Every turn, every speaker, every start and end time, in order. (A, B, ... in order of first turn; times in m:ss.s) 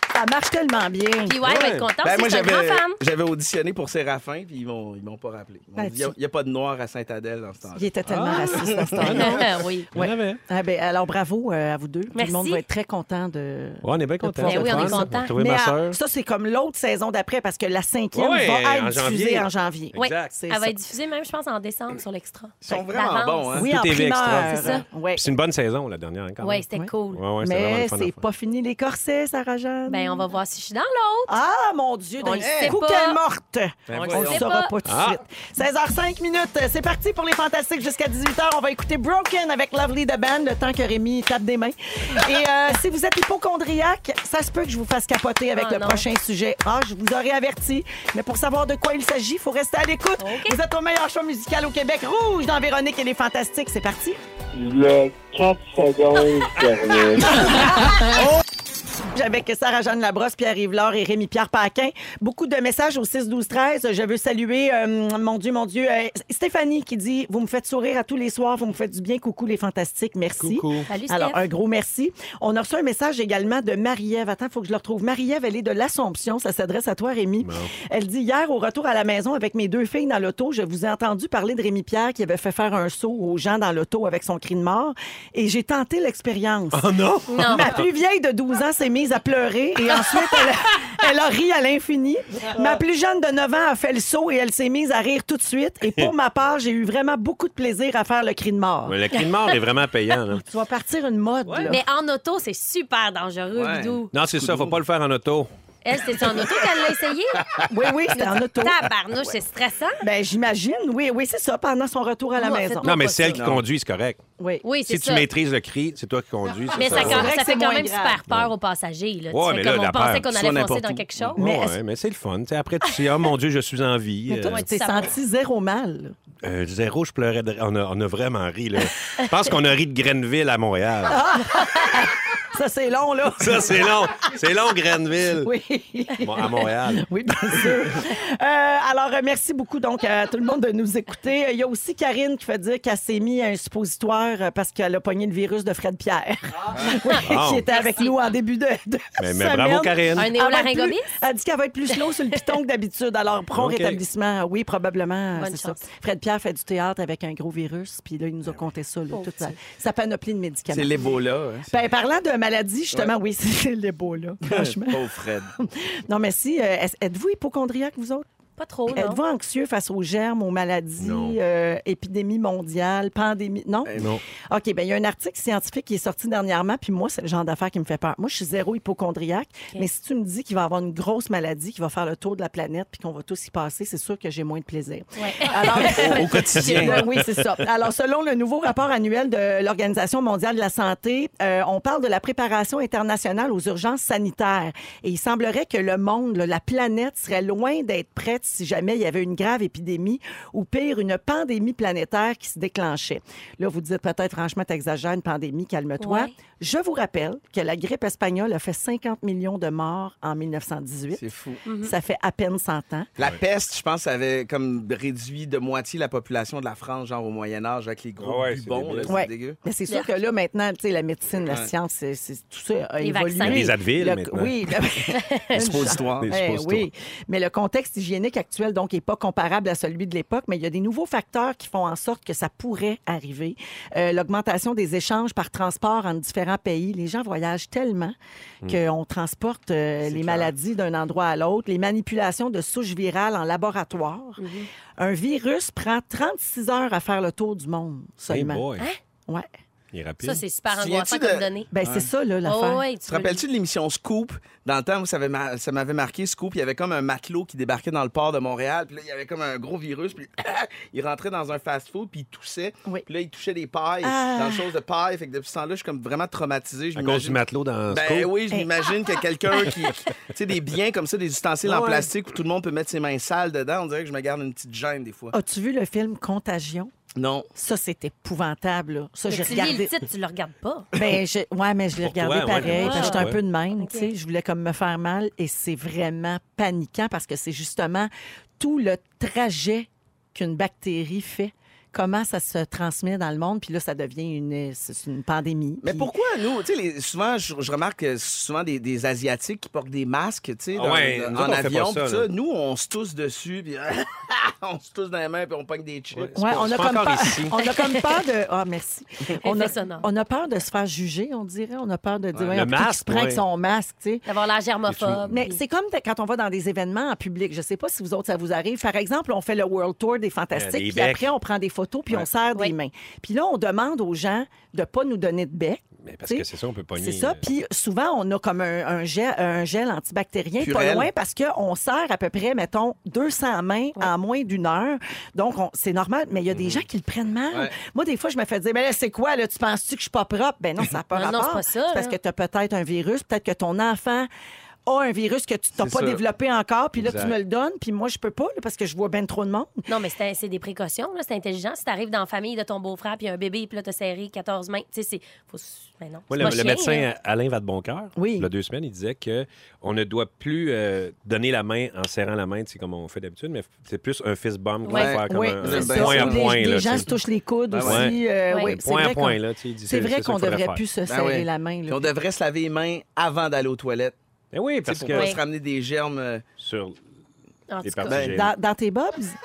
0:00.1-0:01.4 A
0:01.2-0:03.0 B
0:01.4-0:01.9 C
0:02.0-0:07.9 D
0:05.8-0:06.2 A
0:07.8-0:20.8 A
0:08.1-0:10.4 C
0:08.4-0:09.3 D
0:09.0-0:09.9 B
0:12.2-0:12.6 B
0:13.8-0:16.0 C
0:14.4-0:15.3 B
0:18.1-0:20.3 C
0:20.0-0:23.5 B
0:22.6-0:23.7 D
0:23.5-0:28.2 C
0:23.6-0:25.2 A
0:24.5-0:24.8 B
0:26.4-0:27.2 B
0:26.7-0:30.3 A
0:29.9-0:31.3 B
0:31.3-0:54.2 A
0:32.2-0:33.2 B
0:32.4-0:32.8 D
0:33.9-0:34.4 D
0:33.9-0:34.7 B
0:34.8-0:35.2 C
0:45.6-0:46.0 B
0:50.2-0:50.6 B
0:54.5-0:57.7 E
0:59.1-1:26.9 A
1:10.4-1:10.9 C
1:10.9-1:11.4 B
1:17.4-1:17.7 C
1:26.7-1:27.8 C
1:27.3-1:27.8 B
1:27.4-1:39.0 A
1:38.9-1:40.4 C
1:40.4-1:41.8 A
1:41.5-1:41.8 C
1:41.7-1:44.1 B
1:43.5-1:44.8 D
1:44.1-1:45.5 C
1:45.8-1:47.4 B
1:47.7-1:48.8 A
1:48.1-1:50.0 B
1:50.0-1:52.9 A
1:52.4-1:53.4 B
1:52.8-1:54.2 C
1:53.4-1:53.6 D
1:54.4-1:54.6 A
1:54.6-1:55.3 B
1:54.9-1:57.4 C
1:56.8-2:01.4 B
1:56.9-1:58.2 A
1:58.3-1:58.5 C
1:59.3-2:00.4 C
2:00.3-2:01.0 D
2:01.2-2:04.7 C
2:01.4-2:01.8 A
2:04.3-2:06.2 A
2:04.4-2:05.1 B
2:06.4-2:11.2 C
2:11.1-2:14.0 A
2:13.4-2:15.5 C
2:15.4-2:41.1 A
2:16.2-2:17.1 C
2:27.2-2:27.7 C
2:27.7-2:28.1 B
2:29.2-2:30.3 C
2:30.2-2:31.1 B
2:33.5-2:34.0 C
2:35.4-2:35.8 B
2:39.1-2:39.5 B
2:40.7-2:41.8 D
2:41.7-2:45.0 A
2:44.4-2:45.5 D
2:45.6-2:48.3 A
2:48.6-2:49.2 B
2:48.9-2:53.9 A
2:51.0-2:51.4 C
2:53.9-2:54.1 D
2:54.0-2:54.2 C
2:54.5-3:31.2 A
3:05.2-3:06.8 B
3:05.8-3:07.0 D
3:06.7-3:07.5 C
3:26.0-3:26.3 B
3:31.2-3:31.6 D
3:31.6-3:31.9 B
3:31.8-3:33.1 A
3:33.2-3:39.6 D
3:38.2-3:39.2 C
3:39.1-4:04.4 A
3:43.0-3:43.7 B
3:43.4-3:44.6 C
3:45.2-3:45.6 B
3:45.5-3:46.3 D
3:46.2-3:46.9 C
4:00.0-4:00.5 D
4:04.4-4:04.7 B
4:05.0-4:08.6 A
4:08.3-4:08.9 C
4:09.9-4:10.4 C
4:10.2-4:11.7 B
4:10.7-4:12.1 D
4:11.7-4:12.8 A
4:12.4-4:13.4 B
4:13.1-4:35.3 D
4:24.0-4:24.7 A
4:27.0-4:28.4 C
4:31.7-4:32.0 C
4:31.7-4:32.0 A
4:35.3-4:36.9 A
4:37.2-4:37.5 D
4:37.6-4:39.9 A
4:39.3-4:40.9 B
4:40.9-4:56.1 A
4:42.0-4:43.4 C
4:42.6-4:43.3 B
4:43.8-4:44.1 B
4:55.8-5:06.4 D
5:00.7-5:02.3 C
5:06.1-5:07.5 C
5:06.4-5:14.2 A
5:07.6-5:08.1 B
5:09.4-5:10.1 B
5:12.4-5:13.4 C
5:14.3-5:15.6 B
5:14.9-5:15.4 C
5:15.3-5:44.3 A
5:20.5-5:21.3 C
5:26.0-5:27.4 C
5:30.6-5:31.1 D
5:36.5-5:36.8 C
5:41.1-5:42.2 B
5:44.9-5:49.9 A
5:45.8-5:46.2 D
5:47.0-5:47.4 C
5:49.9-5:57.1 B
5:56.3-6:07.1 C
5:58.2-5:58.5 A
6:04.8-6:05.2 B
6:04.9-6:06.5 D
6:05.2-6:12.1 A
6:07.7-6:08.1 D
6:07.8-6:10.8 C
6:11.1-6:14.2 D
6:14.5-6:15.4 C
6:14.8-6:16.4 D
6:15.1-6:15.4 B
6:16.6-6:17.0 C
6:17.7-6:18.2 B
6:17.8-6:18.6 C
6:18.1-6:18.4 D
6:18.3-6:19.4 A